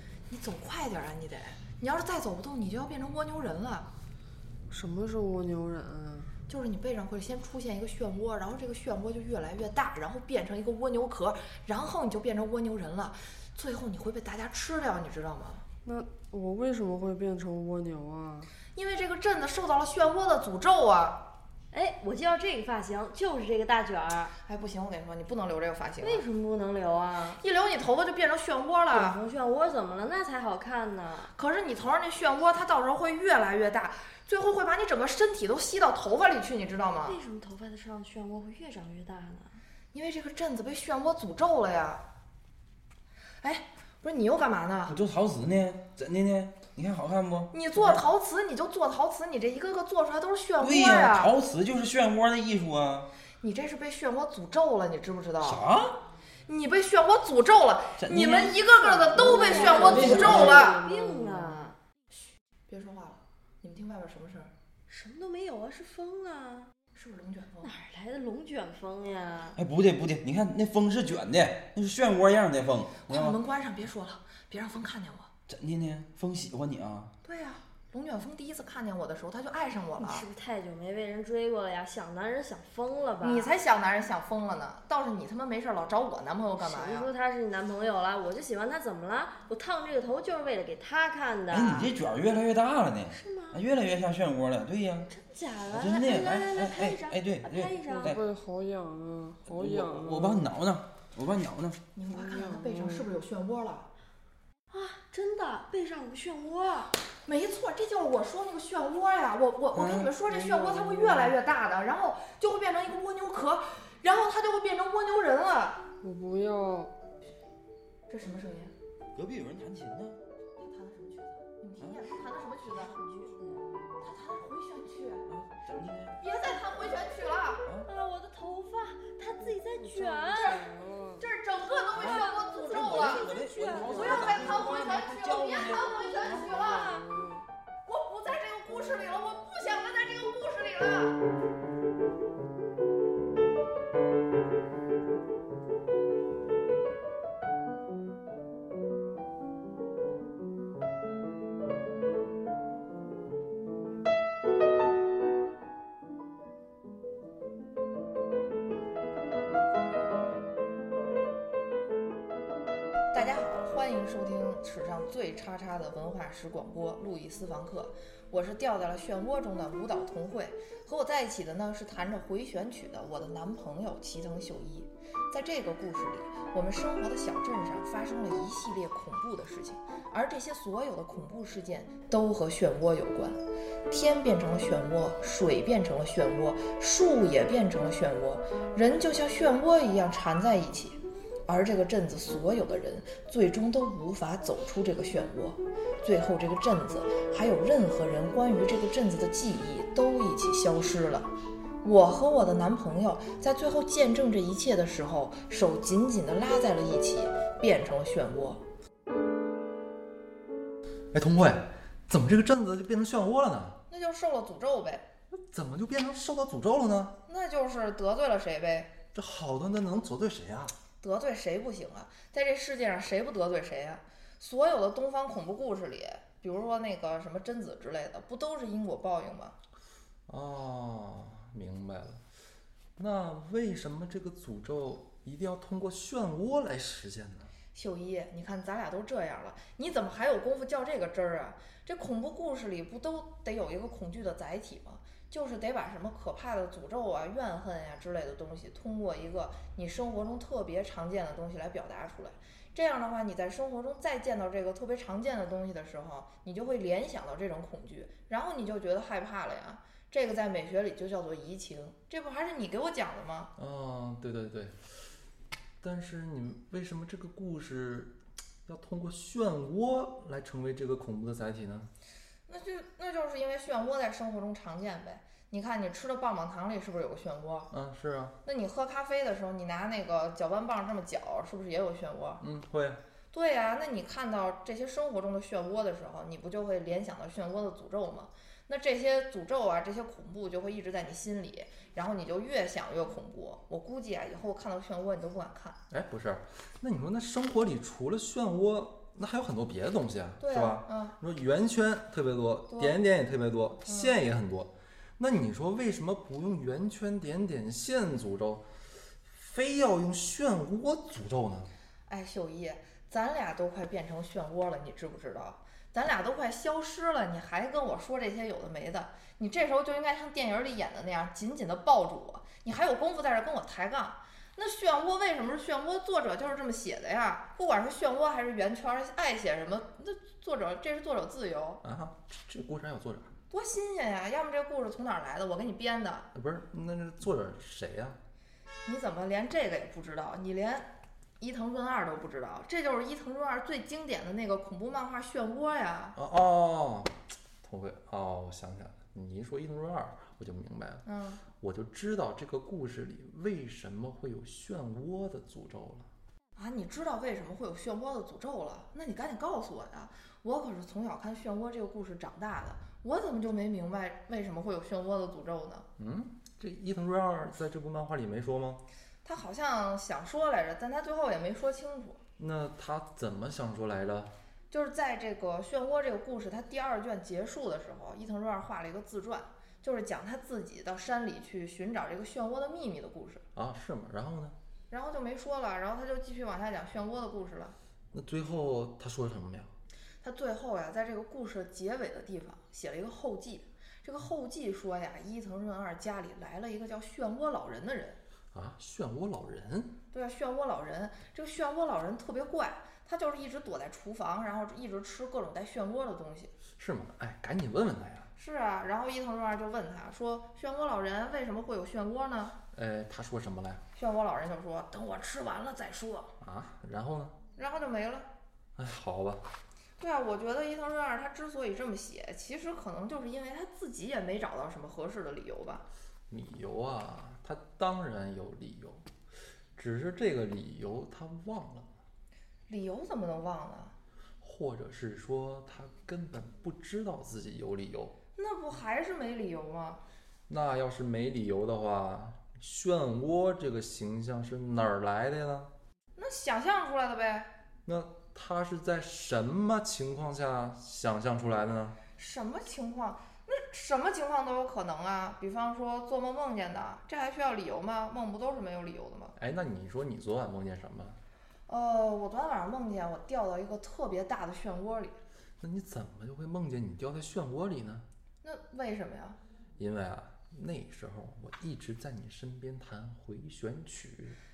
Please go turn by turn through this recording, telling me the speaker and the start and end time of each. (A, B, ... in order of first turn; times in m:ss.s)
0:00.3-0:03.9 A
0:04.7-0:06.3 B
0:06.5-0:15.6 A
0:15.8-0:18.5 B
0:18.7-0:21.3 A
0:21.7-0:24.3 C
0:24.4-0:26.2 A
0:26.0-0:27.4 C
0:27.3-0:29.2 A
0:28.9-0:31.3 C
0:31.3-0:37.2 A
0:37.0-0:39.6 C
0:39.9-0:42.0 A
0:43.4-0:45.0 A
0:44.9-0:48.0 D
0:47.5-0:51.3 A
0:50.6-0:53.1 D
0:53.4-0:55.7 A
0:55.4-0:56.0 D
0:56.5-1:00.8 A
0:58.0-0:58.6 D
0:58.7-1:01.8 C
0:59.8-1:00.7 D
1:02.7-1:04.5 A
1:04.9-1:06.7 C
1:06.9-1:07.7 A
1:07.6-1:09.6 C
1:09.6-1:13.4 D
1:13.0-1:15.3 A
1:15.5-1:17.1 D
1:17.2-1:20.3 A
1:20.0-1:23.6 C
1:23.2-1:27.1 A
1:26.5-1:31.9 C
1:31.5-1:35.1 D
1:33.1-1:33.6 C
1:35.1-1:38.1 C
1:35.7-1:38.2 D
1:37.8-1:40.5 B
1:39.4-1:41.8 D
1:41.9-1:43.9 A
1:42.1-1:43.1 B
1:44.7-1:47.0 C
1:47.2-1:55.8 A
1:49.7-1:50.1 D
1:50.5-1:51.3 B
1:56.0-1:56.9 B
1:58.1-1:58.7 A
1:59.1-2:00.2 D
2:00.6-2:03.0 A
2:01.8-2:02.1 D
2:02.7-2:03.7 C
2:04.0-2:05.3 A
2:05.3-2:06.2 D
2:06.2-2:07.7 A
2:07.8-2:10.6 C
2:09.4-2:11.2 B
2:10.3-2:13.3 A
2:11.9-2:12.5 C
2:12.0-2:15.9 D
2:13.1-2:13.9 C
2:13.8-2:14.2 B
2:13.8-2:17.0 A
2:15.9-2:17.0 C
2:16.2-2:17.4 B
2:17.8-2:21.2 A
2:43.1-3:21.3 A
3:21.8-3:28.6 A
3:31.1-3:33.8 E
3:33.9-3:35.0 A
3:35.3-3:37.2 E
3:37.3-3:38.9 A
3:39.1-3:40.7 E
3:41.0-3:49.6 A
3:50.3-3:52.2 E
3:53.0-3:57.5 E
3:57.7-4:23.5 A
4:23.6-4:24.8 E
4:25.8-4:31.9 E
4:32.5-4:37.7 A
4:37.7-4:38.4 E
4:38.4-4:42.4 A
4:42.4-4:43.0 E
4:43.3-4:55.8 A
4:55.9-5:11.7 E
5:00.4-5:01.2 A
5:02.7-5:03.0 A
5:03.8-5:04.2 A
5:12.1-5:31.8 A
5:31.8-5:33.3 E
5:33.5-5:36.3 A
5:36.3-5:38.2 E
5:38.8-5:46.2 A
5:46.2-5:51.0 E
5:51.0-5:51.4 A
5:51.6-5:56.1 E
5:56.6-6:05.9 A
6:06.0-6:08.8 E
6:09.2-6:12.2 A
6:12.4-6:14.3 E
6:14.7-6:23.4 A
6:23.5-6:24.6 E
6:24.9-6:27.8 A
6:28.1-6:29.7 E
6:30.2-6:38.2 A
6:38.5-6:40.0 E
6:40.1-6:46.5 A
6:46.8-6:48.3 E
6:48.4-6:52.5 A
6:52.7-6:53.8 E
6:53.9-6:56.3 A
6:56.4-6:57.4 E
6:57.5-6:58.3 A
6:58.8-6:59.4 E
7:00.0-7:05.8 A
7:06.3-7:09.0 E
7:09.8-7:11.9 E
7:12.7-7:13.9 A
7:14.4-7:18.1 E
7:18.4-7:20.0 A
7:20.5-7:25.7 E
7:26.2-7:27.5 A
7:27.8-7:32.0 E
7:32.2-7:39.3 A
7:39.4-7:41.2 E
7:41.7-7:45.2 A
7:45.6-7:48.0 E
7:48.4-7:49.4 A
7:49.8-7:54.4 E